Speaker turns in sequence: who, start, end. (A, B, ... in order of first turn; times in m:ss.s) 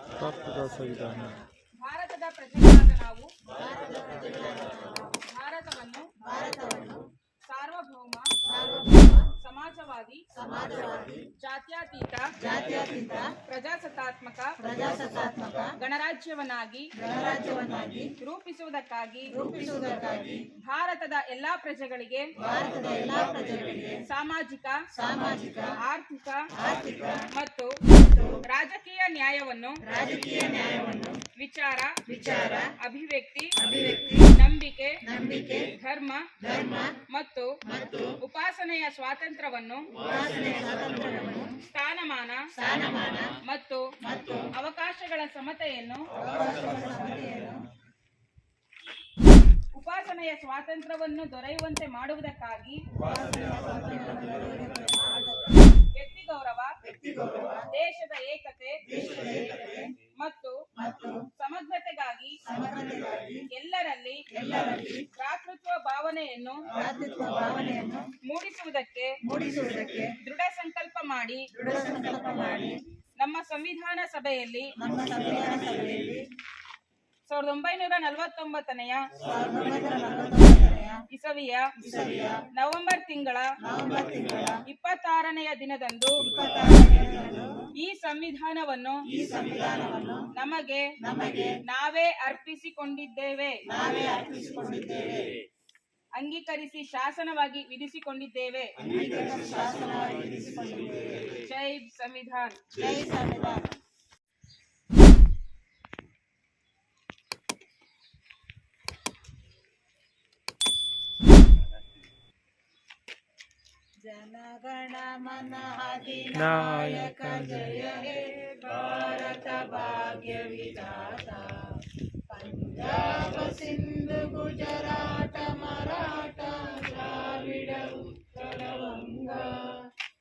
0:00.1-0:01.3 A
0:01.0-0:01.4 B
0:01.8-0:03.3 C
0:03.5-0:05.1 B
0:04.9-0:06.1 C
0:06.2-0:07.1 B
0:07.4-0:08.3 C
0:08.4-0:09.3 B
0:09.3-0:10.2 C
0:10.3-0:11.3 B
0:11.3-0:12.3 C
0:12.4-0:13.4 B
0:13.3-0:14.6 C
0:14.6-0:15.7 B
0:15.8-0:16.9 C
0:17.0-0:18.1 B
0:18.2-0:19.4 C
0:19.3-0:20.5 B
0:20.6-0:22.3 C
0:22.4-0:24.0 B
0:24.0-0:24.9 C
0:24.9-0:25.8 B
0:25.7-0:26.5 C
0:26.5-0:27.3 B
0:27.3-0:27.8 C
0:27.9-0:28.4 B
0:28.4-0:29.8 C
0:29.8-0:31.2 B
0:31.3-0:32.0 C
0:32.0-0:32.7 B
0:32.7-0:33.6 C
0:33.6-0:34.3 B
0:34.1-0:35.0 C
0:35.0-0:35.7 B
0:35.7-0:36.4 C
0:36.4-0:37.0 B
0:37.0-0:37.6 C
0:37.6-0:38.2 B
0:38.2-0:40.0 C
0:40.0-0:41.6 B
0:41.6-0:42.5 C
0:42.6-0:43.4 B
0:43.4-0:46.1 C
0:44.0-0:44.5 B
0:46.1-0:47.6 B
0:49.7-0:52.8 C
0:53.0-0:55.6 B
0:55.9-0:56.8 C
0:56.8-0:57.7 B
0:57.7-0:58.8 C
0:58.9-0:59.9 B
1:00.0-1:00.6 C
1:00.7-1:01.3 B
1:01.3-1:02.4 C
1:02.4-1:03.5 B
1:03.5-1:04.3 C
1:04.3-1:05.1 B
1:05.0-1:06.7 C
1:06.7-1:08.1 B
1:08.2-1:09.2 C
1:09.2-1:10.2 B
1:10.0-1:11.5 C
1:11.5-1:12.8 B
1:13.2-1:14.8 C
1:14.8-1:16.3 B
1:17.3-1:19.1 C
1:19.2-1:21.0 B
1:21.1-1:21.8 C
1:21.8-1:22.4 B
1:22.5-1:23.5 C
1:23.6-1:24.6 B
1:24.6-1:26.3 C
1:26.2-1:27.7 B
1:27.8-1:29.1 C
1:29.1-1:30.3 B
1:30.3-1:31.0 C
1:31.0-1:31.6 B
1:31.6-1:33.6 C
1:33.7-1:35.3 B
1:36.2-1:38.8 C
1:38.8-1:41.4 B
1:41.2-1:42.6 C
1:42.7-1:43.7 B
1:54.0-2:09.8 B
1:56.4-1:57.6 A